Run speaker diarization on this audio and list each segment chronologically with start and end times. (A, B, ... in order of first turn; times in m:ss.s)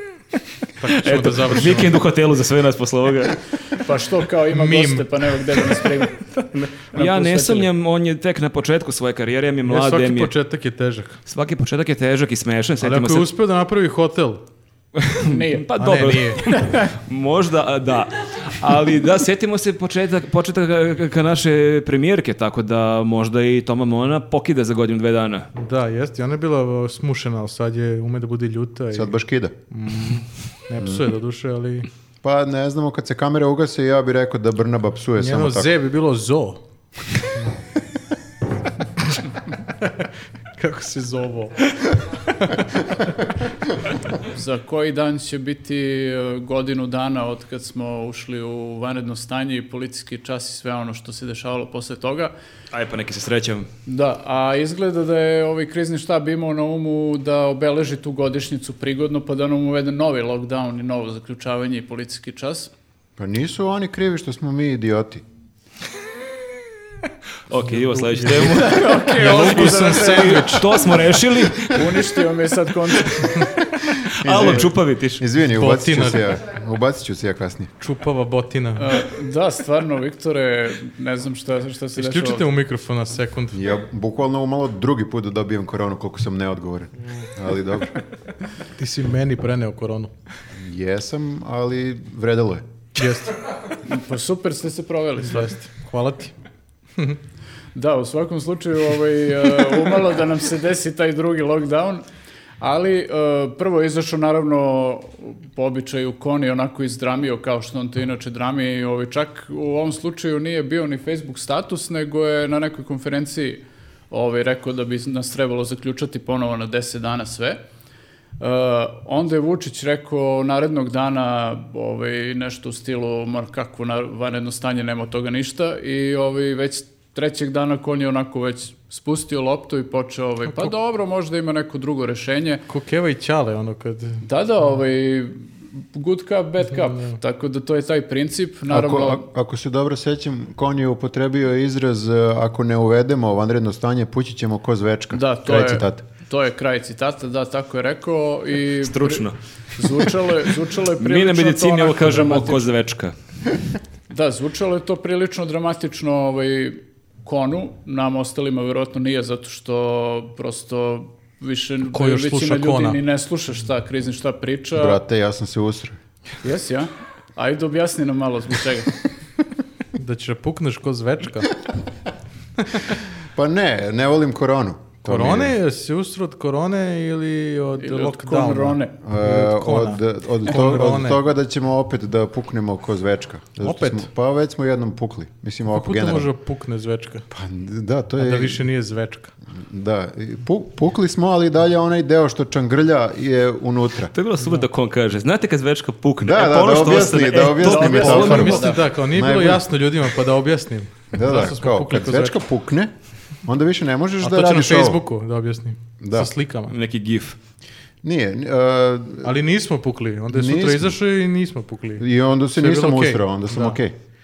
0:00.8-0:02.0 A
0:00.8-0:03.4 B
0:03.7-0:06.2 C
0:04.5-0:05.1 A
0:06.3-0:10.3 B
0:06.9-0:07.7 C
0:09.6-0:11.2 A
0:11.3-0:13.3 B
0:12.8-0:14.4 A
0:15.0-0:25.5 B
0:15.2-0:15.7 C
0:15.8-0:16.6 A
0:16.6-0:16.9 C
0:25.5-0:29.1 A
0:28.9-0:29.5 D
0:29.7-0:31.9 A
0:30.8-0:31.1 D
0:32.2-0:35.7 D
0:35.2-0:36.6 A
0:40.6-0:42.6 A
0:44.2-0:52.3 C
0:52.7-0:53.7 B
0:53.8-1:02.7 C
1:03.2-1:05.2 D
1:07.5-1:12.0 B
1:07.9-1:10.7 A
1:08.5-1:10.8 C
1:11.7-1:13.4 C
1:14.1-1:15.2 B
1:14.2-1:17.7 D
1:15.6-1:16.2 A
1:17.8-1:18.9 A
1:18.8-1:22.5 C
1:22.0-1:23.6 A
1:23.5-1:28.0 D
1:28.8-1:30.1 A
1:30.6-1:32.6 D
1:33.0-1:33.3 A
1:33.8-1:35.5 C
1:35.2-1:36.3 A
1:37.7-1:42.0 C
1:42.6-1:57.6 C
1:58.4-2:12.6 C
2:12.7-2:14.2 A
2:14.2-2:19.2 C
2:16.8-2:17.2 A
2:18.7-2:26.0 D
2:25.1-2:32.7 C
2:28.8-2:30.1 B
2:31.0-2:33.1 B
2:34.1-2:45.0 C
2:41.9-2:43.0 A
2:44.7-2:46.0 D
2:46.4-2:48.9 C
2:49.9-2:51.6 A
2:53.3-2:55.6 D
2:55.0-3:01.2 A
2:57.8-2:58.9 C
2:59.0-3:06.3 D
3:03.6-3:04.0 A
3:05.7-3:07.2 A
3:07.3-3:08.6 D
3:08.2-3:09.3 A
3:09.5-3:14.1 D
3:14.1-3:18.7 B
3:14.4-3:14.6 A
3:16.2-3:19.7 D
3:17.6-3:18.8 C
3:18.0-3:22.4 A
3:21.1-3:22.9 D
3:23.4-3:25.0 D
3:24.2-3:26.7 A
3:26.0-3:26.3 D
3:26.7-3:27.4 B
3:28.0-3:29.4 D
3:29.2-3:32.0 A
3:30.3-3:31.0 D
3:32.0-3:33.9 D
3:32.6-3:33.8 A